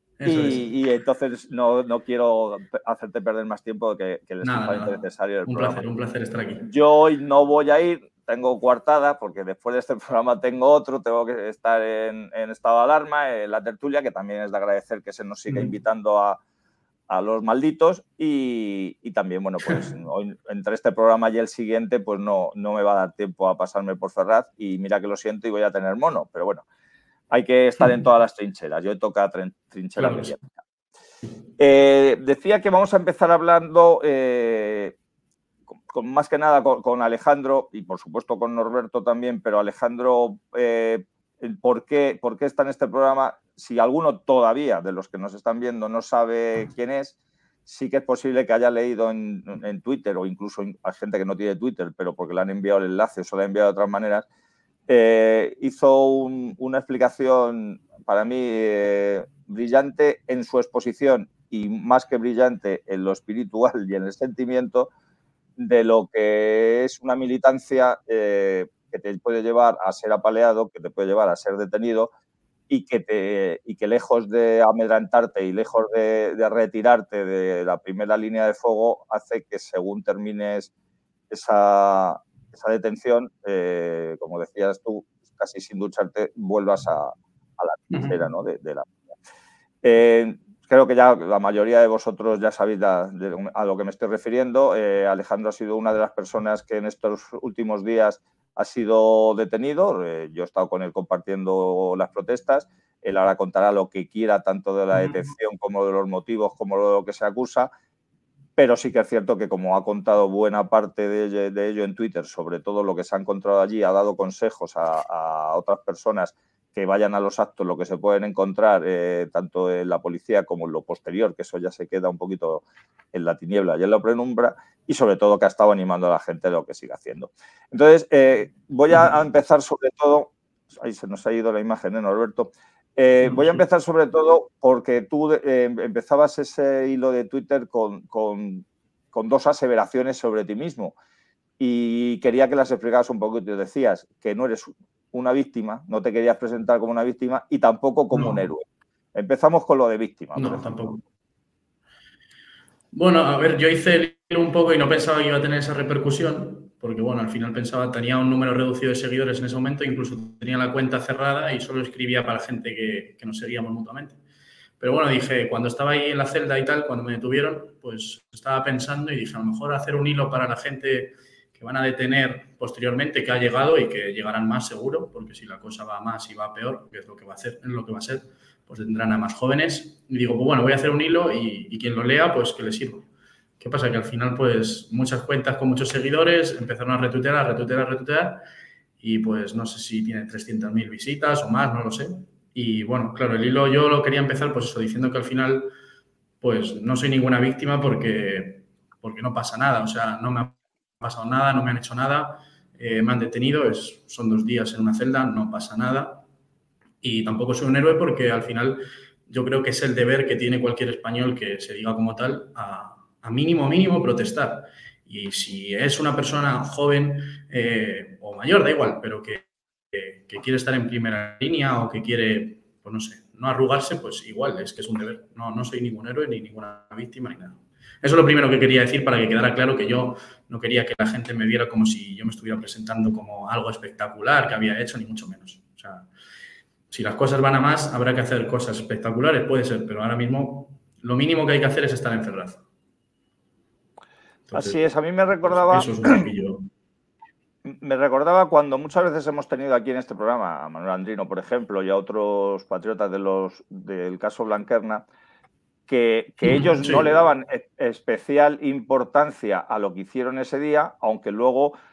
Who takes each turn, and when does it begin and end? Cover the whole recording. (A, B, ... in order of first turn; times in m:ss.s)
0:00.2-0:00.6 A
0:00.2-0:05.8 B
0:04.4-0:06.7 A
0:06.6-0:16.4 B
0:17.1-0:26.6 B
0:27.3-0:30.5 B
0:30.0-0:30.3 A
0:31.6-0:35.0 B
0:35.9-0:54.2 B
0:54.9-1:04.9 B
1:05.6-1:12.1 B
1:12.7-1:20.7 B
1:21.3-1:28.9 B
1:27.9-1:28.2 A
1:29.8-1:47.7 B
1:48.6-2:20.9 B
2:21.6-2:30.9 B
2:28.1-2:28.4 A
2:30.4-2:31.0 A
2:32.9-2:44.2 A
2:44.8-3:03.1 A
3:03.6-3:08.4 A
3:09.0-3:15.7 A
3:16.4-3:26.2 A
3:27.0-3:56.1 A
3:56.9-4:02.6 A
4:04.5-4:04.8 A
4:04.5-4:06.2 B
4:05.4-4:06.6 A
4:07.6-4:15.0 B
4:15.9-4:21.7 B
4:16.4-4:17.0 A